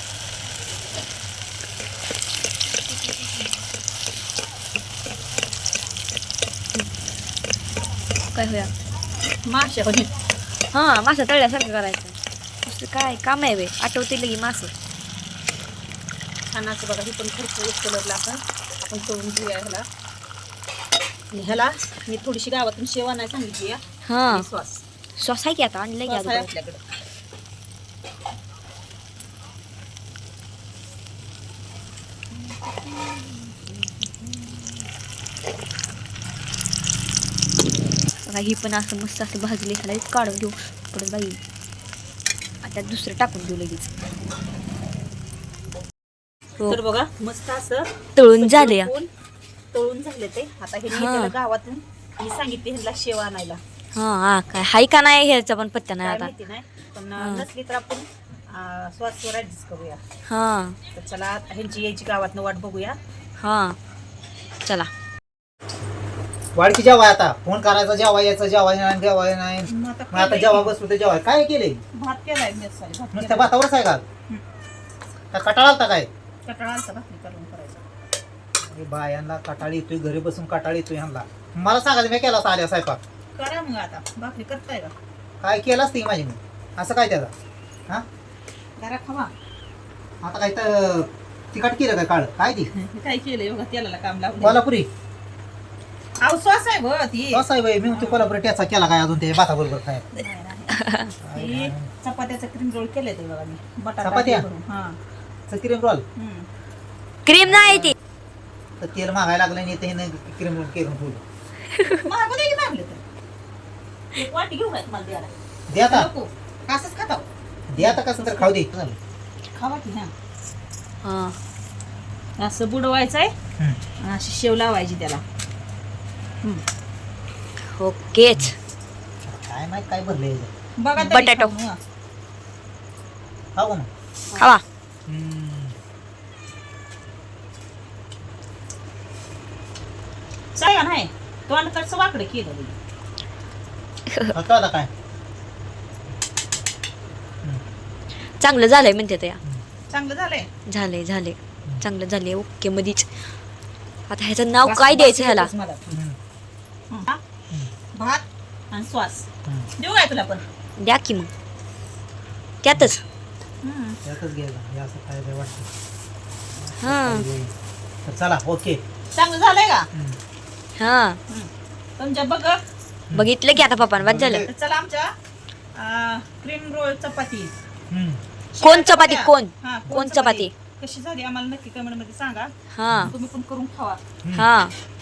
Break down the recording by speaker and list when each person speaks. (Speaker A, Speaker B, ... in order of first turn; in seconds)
Speaker A: 8.3-8.7, 10.7-14.7, 24.1-24.5, 25.2-26.5, 38.2-41.4, 42.6-43.9, 48.2-48.9, 50.9-51.3, 53.9-56.3, 57.2-57.4, 60.3-60.8, 63.4-63.8, 100.7-101.1, 107.2-107.9, 121.0-121.4, 127.7-128.6, 131.0-131.5, 134.3-134.6, 144.1-144.3, 148.4-149.4, 150.7-153.1, 154.1-155.5, 160.8-161.3, 162.6-163.0, 166.8-167.3, 170.8-171.2, 173.1-174.5, 178.6-180.5, 182.7-183.1, 184.3-184.7
Speaker B: 9.5-10.1, 16.5-19.9, 21.3-24.8, 26.1-26.8, 46.7-49.1, 49.7-53.6, 56.0-60.0, 60.9-63.0, 69.7-70.7, 71.9-73.5, 76.5-77.8, 83.3-84.9, 88.8-89.3, 92.7-94.6, 96.2-98.3, 100.2-100.8, 101.3-105.0, 106.2-106.5, 111.9-113.0, 114.1-118.0, 119.5-120.1, 122.4-123.3, 124.0-125.2, 130.8-131.8, 140.6-142.8, 149.9-150.5, 154.7-155.9, 156.9-157.2, 157.9-159.3, 159.8-160.4, 163.6-164.0, 169.2-169.9, 171.3-172.6, 174.3-175.1, 175.8-177.5, 178.6-182.5, 183.0-184.0
Speaker C: 66.5-71.8, 73.1-74.0, 75.3-76.1, 78.6-83.0, 85.4-87.3, 90.2-92.7, 94.4-94.9, 97.3-100.2, 101.2-101.9, 104.0-104.4, 105.5-106.0, 107.5-107.9, 108.8-111.2, 115.7-116.1, 117.7-119.0, 129.2-130.5, 133.6-133.9, 135.1-135.8, 144.3-144.9, 155.9-156.2, 164.0-165.7, 166.7-167.5, 168.1-168.8, 174.0-174.5, 177.9-178.2